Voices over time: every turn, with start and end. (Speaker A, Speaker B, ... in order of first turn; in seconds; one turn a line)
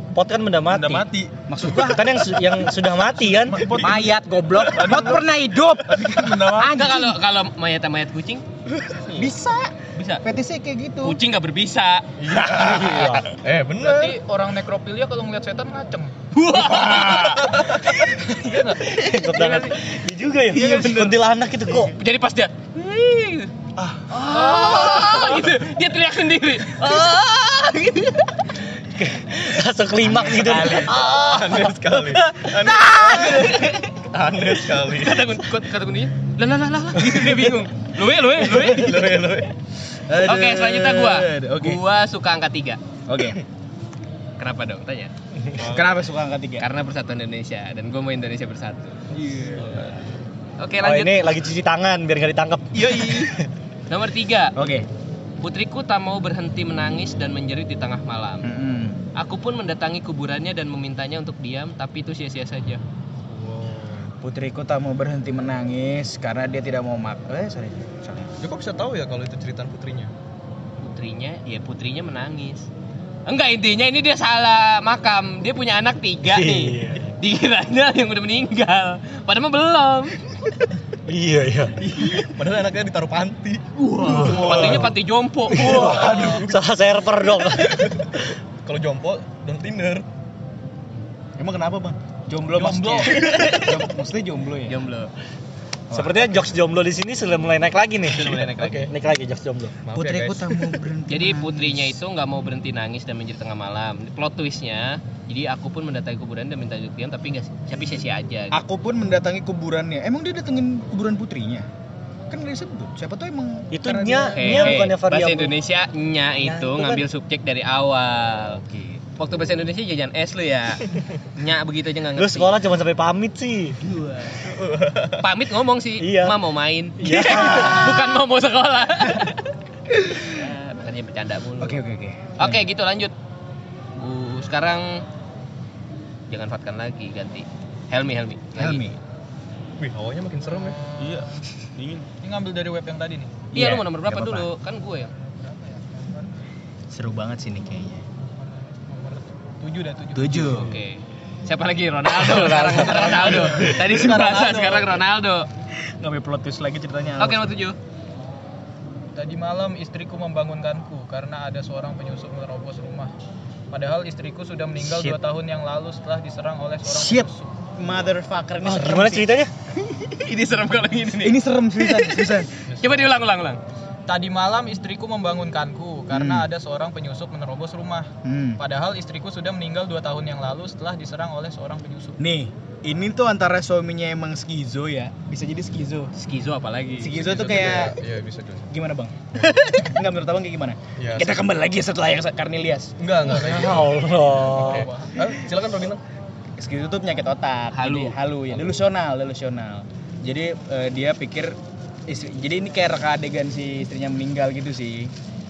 Speaker A: 0.1-1.1
Speaker B: 0.7-1.4
Speaker C: 1.5-2.2
Speaker A: 1.6-3.7
Speaker B: 3.5-4.1
Speaker D: 3.6-3.9
Speaker C: 3.7-7.2
Speaker B: 4.6-5.2
Speaker B: 5.9-6.8
Speaker E: 6.5-8.4
Speaker C: 9.1-11.2
Speaker E: 9.9-10.2
Speaker E: 11.0-12.1
Speaker D: 12.2-14.2
Speaker A: 12.5-13.2
Speaker F: 13.8-16.1
Speaker E: 16.3-17.6
Speaker B: 16.6-17.4
Speaker D: 17.3-17.8
Speaker E: 18.1-19.6
Speaker F: 18.3-18.8
Speaker A: 18.8-22.0
Speaker F: 19.4-19.7
Speaker C: 20.5-21.1
Speaker E: 21.8-23.5
Speaker E: 24.1-28.4
Speaker F: 24.3-25.4
Speaker A: 28.9-31.0
Speaker C: 30.0-31.0
Speaker D: 30.5-35.4
Speaker E: 30.5-31.4
Speaker E: 32.3-34.0
Speaker E: 34.7-39.1
Speaker D: 38.4-39.5
Speaker C: 40.1-41.8
Speaker E: 40.2-42.8
Speaker C: 43.1-43.4
Speaker E: 44.4-45.1
Speaker D: 45.6-45.9
Speaker C: 45.6-46.7
Speaker E: 46.6-49.0
Speaker D: 49.3-49.9
Speaker E: 50.6-51.3
Speaker A: 50.8-53.3
Speaker E: 52.8-53.4
Speaker E: 53.9-54.6
Speaker C: 54.6-54.9
Speaker E: 55.4-58.5
Speaker C: 58.4-59.0
Speaker E: 59.2-62.8
Speaker D: 63.3-64.1
Speaker C: 64.2-68.3
Speaker D: 68.4-70.1
Speaker E: 70.8-72.7
Speaker E: 73.3-80.4
Speaker A: 76.2-77.1
Speaker A: 81.1-82.0
Speaker D: 81.9-85.0
Speaker E: 83.8-86.3
Speaker A: 84.0-85.0
Speaker A: 85.5-88.0
Speaker D: 85.5-86.6
Speaker D: 87.4-90.0
Speaker C: 91.4-94.8
Speaker D: 92.6-93.5
Speaker E: 93.1-93.8
Speaker E: 94.7-95.1
Speaker C: 95.9-96.5
Speaker A: 95.9-99.8
Speaker E: 98.1-98.9
Speaker D: 98.2-98.9
Speaker D: 99.8-100.7
Speaker C: 99.9-102.0
Speaker E: 101.1-108.6
Speaker C: 108.5-111.7
Speaker C: 112.3-114.9
Speaker A: 113.7-115.5
Speaker E: 114.3-118.6
Speaker A: 116.4-117.0
Speaker C: 118.5-119.0
Speaker E: 119.2-122.5
Speaker A: 122.2-123.8
Speaker E: 123.8-124.5
Speaker D: 124.4-125.2
Speaker E: 125.2-129.5
Speaker A: 126.0-126.4
Speaker A: 127.0-128.0
Speaker E: 130.2-131.8
Speaker C: 131.6-132.6
Speaker E: 132.4-133.2
Speaker E: 133.9-135.1
Speaker E: 136.3-138.9
Speaker C: 138.6-139.0
Speaker D: 139.8-140.8
Speaker B: 141.0-142.1
Speaker F: 142.2-143.4
Speaker C: 143.5-144.5
Speaker E: 143.5-145.1
Speaker F: 145.4-146.3
Speaker C: 146.9-148.0
Speaker F: 148.7-150.7
Speaker C: 150.2-150.8
Speaker E: 150.3-155.5
Speaker C: 152.1-154.9
Speaker F: 152.9-153.8
Speaker C: 156.0-157.5
Speaker E: 157.2-157.8
Speaker F: 159.2-163.1
Speaker F: 163.7-167.6
Speaker C: 164.8-165.1
Speaker C: 166.9-169.3
Speaker A: 168.6-169.5
Speaker E: 170.1-173.6
Speaker C: 171.2-172.5
Speaker D: 172.7-173.1
Speaker F: 174.1-182.2
Speaker C: 176.1-176.5
Speaker C: 178.2-178.6
Speaker C: 182.2-186.1
Speaker E: 186.2-187.8
Speaker C: 187.0-188.0
Speaker D: 187.2-188.7
Speaker C: 188.7-192.9
Speaker D: 191.0-191.4
Speaker D: 193.0-196.0
Speaker A: 193.3-194.9
Speaker F: 194.4-195.2
Speaker C: 196.6-201.6
Speaker E: 197.7-198.2
Speaker C: 202.1-205.1